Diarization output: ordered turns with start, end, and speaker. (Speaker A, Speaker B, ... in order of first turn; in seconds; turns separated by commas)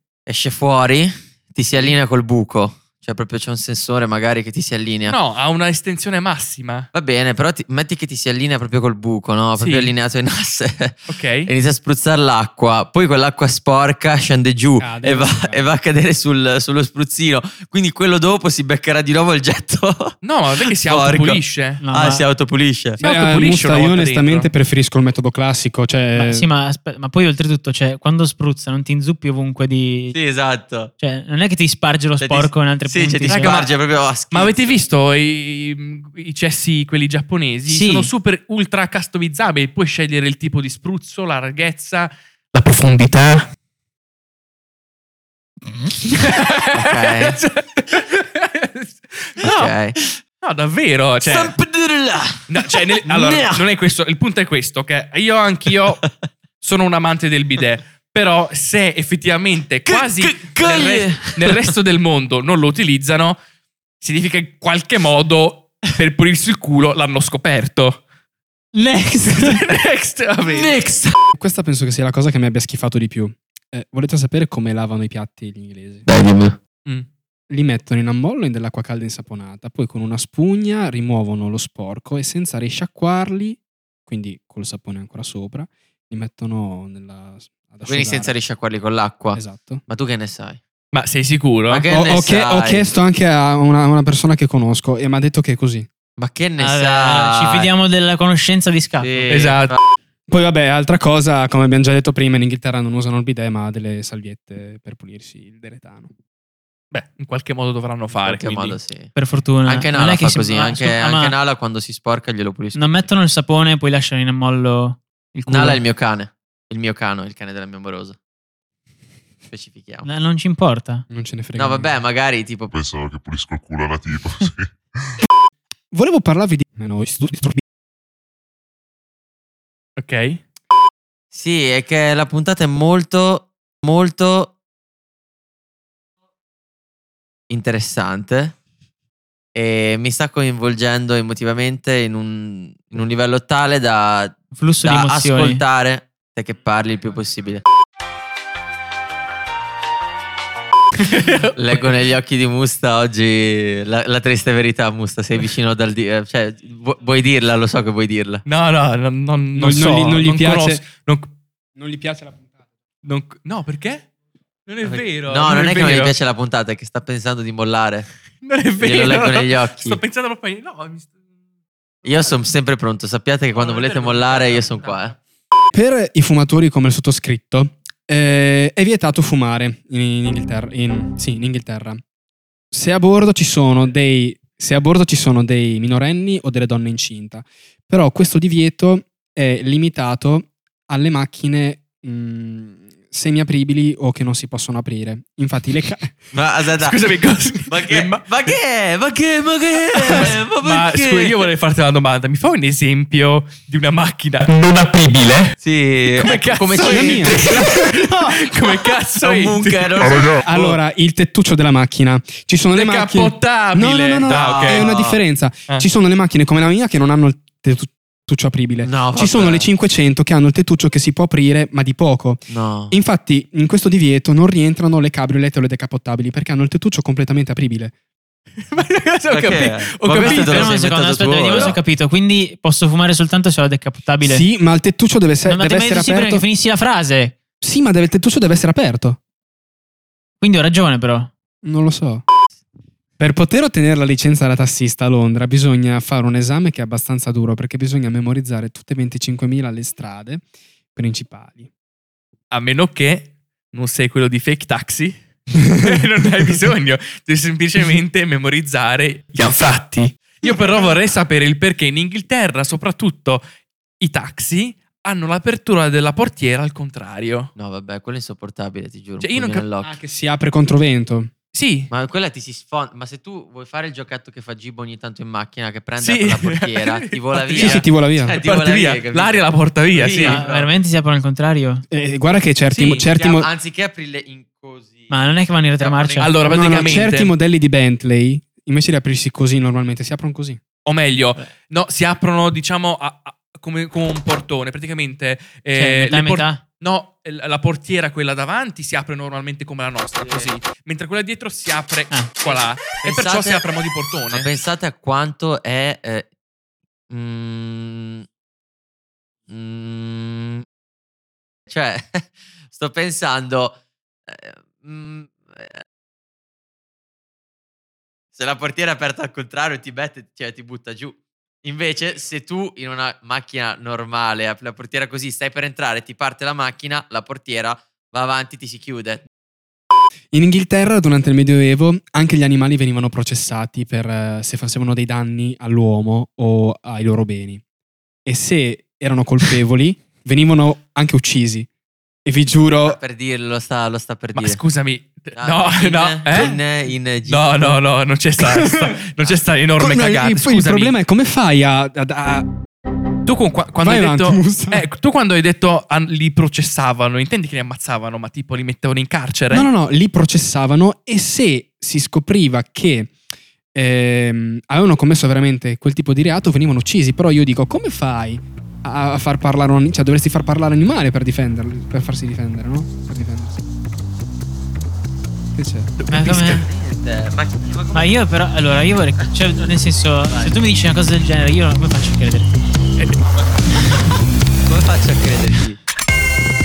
Speaker A: 0.3-5.2, Speaker B: 5.1-6.9, Speaker A: 6.9-23.0, Speaker B: 9.6-9.9, Speaker B: 11.1-11.5, Speaker C: 14.8-15.7, Speaker B: 20.2-21.8, Speaker D: 21.8-22.2, Speaker B: 23.0-24.5, Speaker C: 23.0-26.5, Speaker D: 26.1-30.2, Speaker A: 30.1-30.9, Speaker D: 31.0-33.6, Speaker A: 32.2-34.8, Speaker B: 33.3-33.7, Speaker B: 34.3-43.5, Speaker D: 37.7-38.1, Speaker B: 46.0-49.8, Speaker A: 46.8-47.4, Speaker A: 49.4-50.0, Speaker B: 50.4-51.5, Speaker A: 51.2-53.7, Speaker B: 52.5-56.0, Speaker B: 56.6-63.4, Speaker A: 59.9-61.7, Speaker B: 64.0-68.0, Speaker A: 68.8-69.6, Speaker B: 69.2-70.8, Speaker A: 70.5-71.2, Speaker C: 71.3-76.1, Speaker A: 76.1-76.6, Speaker C: 77.5-88.3, Speaker A: 87.9-90.6, Speaker C: 89.3-89.8, Speaker B: 90.9-91.8, Speaker A: 91.7-92.9, Speaker C: 91.9-95.9, Speaker A: 96.2-97.7, Speaker D: 96.6-99.2, Speaker A: 99.0-99.8, Speaker B: 99.3-99.7, Speaker C: 100.3-106.1, Speaker B: 106.9-108.8, Speaker A: 108.1-113.1, Speaker D: 109.2-111.4, Speaker D: 112.8-115.8, Speaker A: 115.5-118.2, Speaker A: 119.5-120.1, Speaker D: 120.0-121.0, Speaker C: 121.1-121.9, Speaker A: 121.6-122.8, Speaker E: 122.7-124.8, Speaker C: 125.9-127.6, Speaker B: 130.0-130.4, Speaker A: 131.3-134.5, Speaker A: 137.5-138.6, Speaker A: 139.6-147.6, Speaker D: 144.5-145.6, Speaker B: 151.0-151.9, Speaker A: 151.6-158.4, Speaker B: 158.5-161.3, Speaker C: 159.6-160.8, Speaker C: 161.8-162.6, Speaker B: 163.0-164.1, Speaker B: 164.7-166.1, Speaker A: 164.8-168.1, Speaker B: 168.4-171.1, Speaker A: 168.8-170.0, Speaker A: 172.1-175.2, Speaker B: 173.5-175.2, Speaker C: 175.7-182.0, Speaker C: 182.7-196.2, Speaker A: 196.3-197.0, Speaker B: 196.7-198.5, Speaker A: 197.7-201.5, Speaker B: 199.9-205.5, Speaker A: 205.6-207.7, Speaker B: 206.1-210.2, Speaker C: 206.8-208.4, Speaker A: 209.2-210.8, Speaker E: 210.0-210.5, Speaker C: 210.4-227.9, Speaker B: 212.7-214.9, Speaker A: 214.2-215.2, Speaker A: 218.8-219.7, Speaker A: 222.5-222.9, Speaker B: 228.7-230.8, Speaker A: 229.3-231.8, Speaker D: 230.2-234.4, Speaker B: 231.5-231.8, Speaker C: 234.2-236.5, Speaker D: 235.4-237.3, Speaker C: 237.6-239.2, Speaker D: 240.4-241.3, Speaker C: 241.7-242.2, Speaker C: 243.2-251.7, Speaker B: 252.5-263.4, Speaker B: 264.0-267.5, Speaker A: 267.6-269.9, Speaker B: 269.2-269.7, Speaker C: 269.8-271.3, Speaker B: 271.5-271.9, Speaker A: 271.9-280.7, Speaker B: 276.0-280.4, Speaker C: 277.5-278.4, Speaker D: 280.2-281.8, Speaker C: 281.9-283.5, Speaker B: 282.7-283.1, Speaker A: 283.1-285.2, Speaker D: 285.1-286.9, Speaker A: 285.8-286.8, Speaker B: 286.2-287.3, Speaker C: 286.4-290.6, Speaker B: 290.9-304.5, Speaker D: 295.8-296.6, Speaker A: 300.2-300.5, Speaker A: 303.0-303.6, Speaker A: 304.3-306.3, Speaker A: 307.1-308.2, Speaker A: 309.5-310.6, Speaker A: 311.7-313.8, Speaker A: 314.3-315.8, Speaker A: 318.4-329.2, Speaker C: 330.3-337.6, Speaker C: 338.3-341.7, Speaker C: 342.3-343.0, Speaker A: 342.9-344.6, Speaker B: 344.4-346.6, Speaker A: 345.4-347.8, Speaker B: 347.3-351.0, Speaker C: 348.4-349.0, Speaker C: 349.8-352.5, Speaker B: 353.3-359.7, Speaker C: 353.8-354.9, Speaker C: 359.5-363.1, Speaker C: 363.8-373.6, Speaker C: 375.6-375.9, Speaker B: 376.0-376.6, Speaker D: 376.1-376.6, Speaker A: 376.3-378.2, Speaker D: 377.9-382.5, Speaker A: 384.7-385.8